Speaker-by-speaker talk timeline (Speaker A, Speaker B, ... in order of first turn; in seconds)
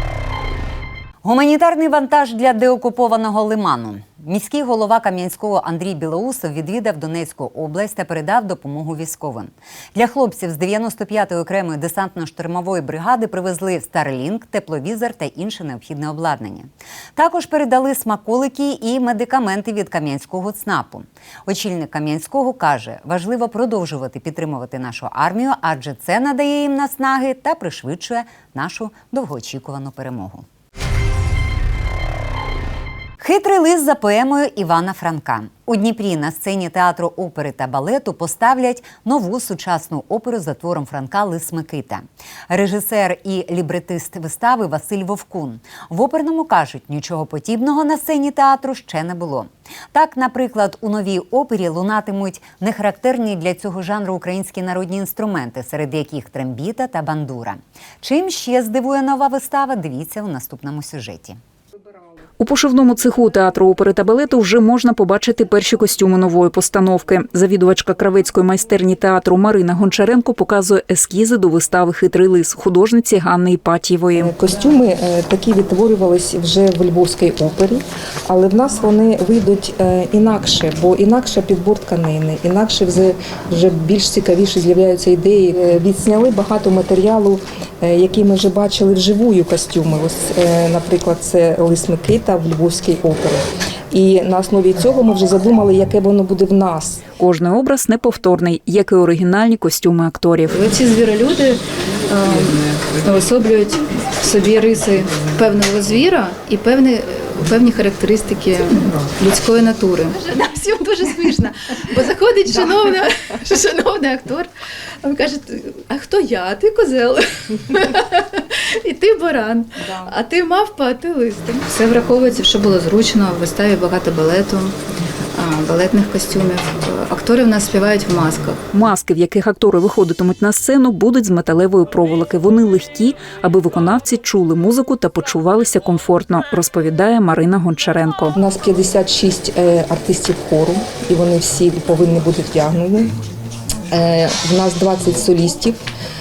Speaker A: 1.2-30.4, 33.2-61.4
Speaker B: 62.4-74.3, 97.2-100.6, 128.7-138.3
Speaker C: 74.2-97.0, 138.3-143.1, 143.9-145.8
Speaker D: 100.5-114.5, 115.0-118.2, 118.8-124.8, 125.3-128.6